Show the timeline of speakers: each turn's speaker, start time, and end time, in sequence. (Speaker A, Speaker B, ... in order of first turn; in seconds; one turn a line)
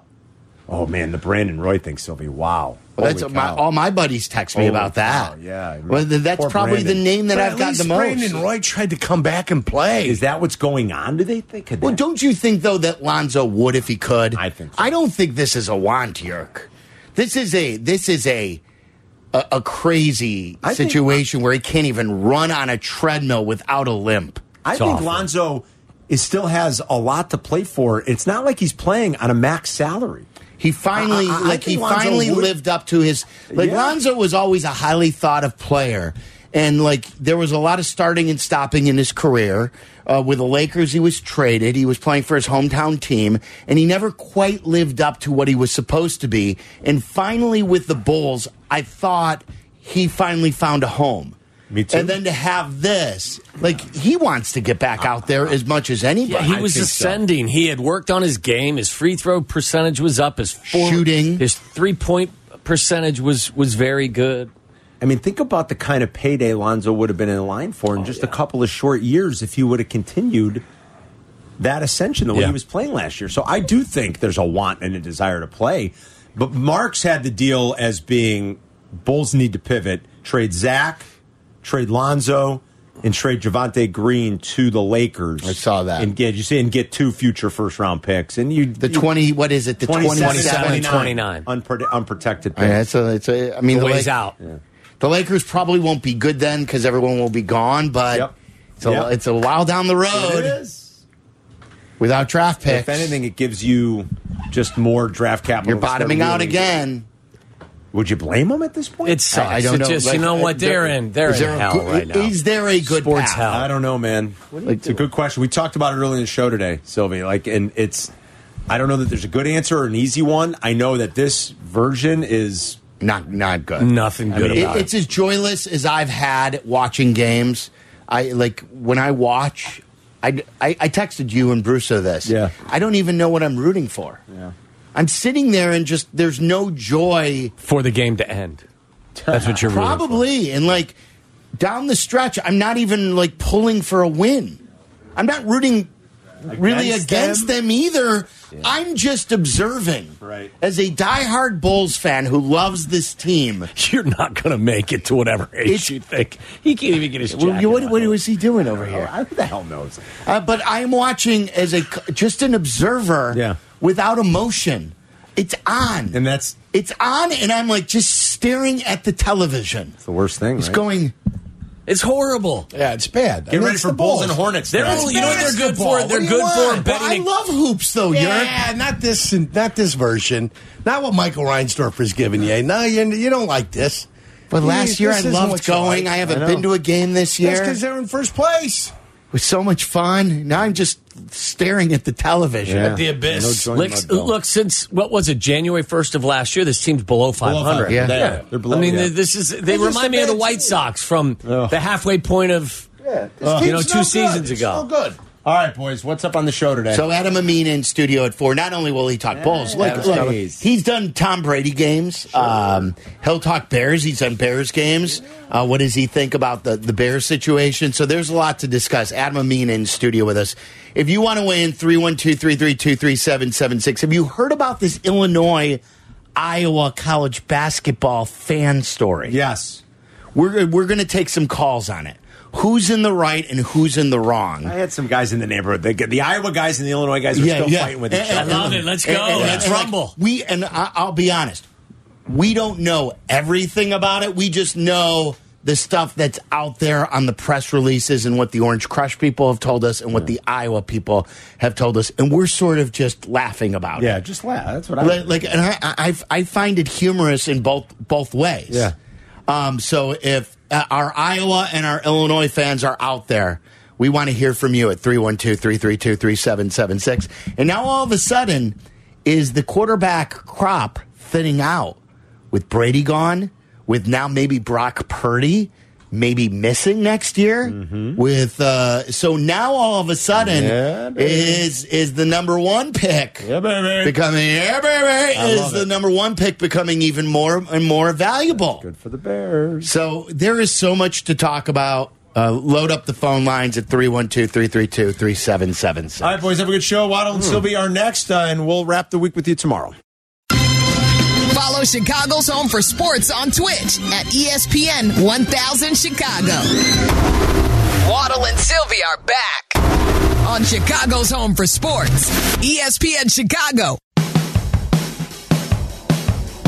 Speaker A: 0.7-3.6
Speaker B: 3.0-5.3
Speaker A: 4.5-7.0
Speaker B: 5.9-8.4
Speaker C: 7.3-10.2
Speaker A: 10.0-12.0
Speaker B: 11.8-18.6
Speaker A: 14.3-14.9
Speaker B: 19.3-24.4
Speaker A: 20.6-21.2
Speaker A: 24.6-30.3
Speaker D: 24.8-25.3
Speaker B: 30.6-51.4
Speaker A: 31.0-32.5
Speaker A: 33.5-34.0
Speaker A: 51.7-52.2
Speaker B: 51.9-56.7
Speaker D: 56.3-64.5
Speaker A: 56.4-57.2
Speaker B: 60.7-61.4
Speaker A: 65.0-70.6
Speaker A: 71.6-81.0
Speaker A: 81.6-89.1
Speaker B: 85.4-86.1
Speaker B: 88.8-91.1
Speaker A: 89.8-92.8
Speaker D: 90.2-91.5
Speaker B: 92.6-94.1
Speaker D: 93.7-94.4
Speaker B: 95.0-98.3
Speaker B: 98.8-100.6
Speaker A: 98.8-99.1
Speaker A: 100.1-101.0
Speaker B: 102.0-103.2
Speaker A: 102.6-106.8
Speaker B: 105.6-107.1
Speaker A: 107.9-109.2
Speaker D: 109.0-113.7
Speaker B: 109.3-113.5
Speaker A: 113.5-118.1
Speaker B: 114.6-115.0
Speaker A: 118.7-122.8
Speaker B: 123.0-123.9
Speaker D: 123.8-124.9
Speaker A: 124.3-124.7
Speaker B: 124.5-134.2
Speaker A: 132.2-132.6
Speaker B: 134.9-137.5
Speaker D: 137.6-138.7
Speaker A: 139.2-139.7
Speaker D: 139.3-140.2
Speaker B: 139.7-141.0
Speaker B: 141.6-144.6
Speaker B: 145.2-145.9
Speaker B: 146.5-153.7
Speaker A: 146.5-147.5
Speaker A: 150.2-150.5
Speaker D: 153.7-158.1
Speaker B: 155.7-155.9
Speaker B: 157.3-159.1
Speaker A: 158.6-160.2
Speaker B: 160.2-166.2
Speaker A: 163.3-163.6
Speaker A: 166.1-166.6
Speaker B: 166.7-170.0
Speaker A: 170.0-170.8
Speaker B: 170.6-171.1
Speaker D: 171.9-172.7
Speaker C: 172.7-176.8
Speaker A: 173.5-175.6
Speaker D: 174.7-177.2
Speaker B: 176.2-178.6
Speaker C: 178.1-184.1
Speaker B: 184.5-187.8
Speaker C: 184.6-186.3
Speaker A: 186.3-186.7
Speaker C: 187.4-188.9
Speaker B: 189.3-193.0
Speaker A: 192.7-194.3
Speaker D: 192.8-202.9
Speaker A: 197.4-199.1
Speaker B: 197.9-198.2
Speaker C: 199.7-200.7
Speaker A: 201.4-201.8
Speaker A: 203.0-203.8
Speaker B: 203.4-203.7
Speaker C: 203.4-205.2
Speaker D: 203.6-204.9
Speaker A: 205.4-207.1
Speaker B: 206.9-225.8
Speaker A: 209.3-210.7
Speaker B: 226.4-229.4
Speaker A: 229.3-229.8
Speaker B: 230.3-234.7
Speaker A: 234.6-239.7
Speaker B: 237.3-241.7
Speaker D: 238.3-240.2
Speaker B: 242.3-254.2
Speaker A: 254.0-255.5
Speaker B: 255.0-258.9
Speaker A: 258.7-258.9
Speaker B: 259.5-272.0
Speaker B: 272.5-283.5
Speaker A: 277.7-278.2
Speaker A: 280.4-281.6
Speaker A: 283.4-284.2
Speaker B: 284.0-288.9
Speaker A: 285.3-285.9
Speaker A: 288.8-289.9
Speaker B: 289.8-296.4
Speaker A: 296.2-299.9
Speaker E: 301.5-307.1
Speaker E: 308.0-309.8
Speaker E: 310.4-314.0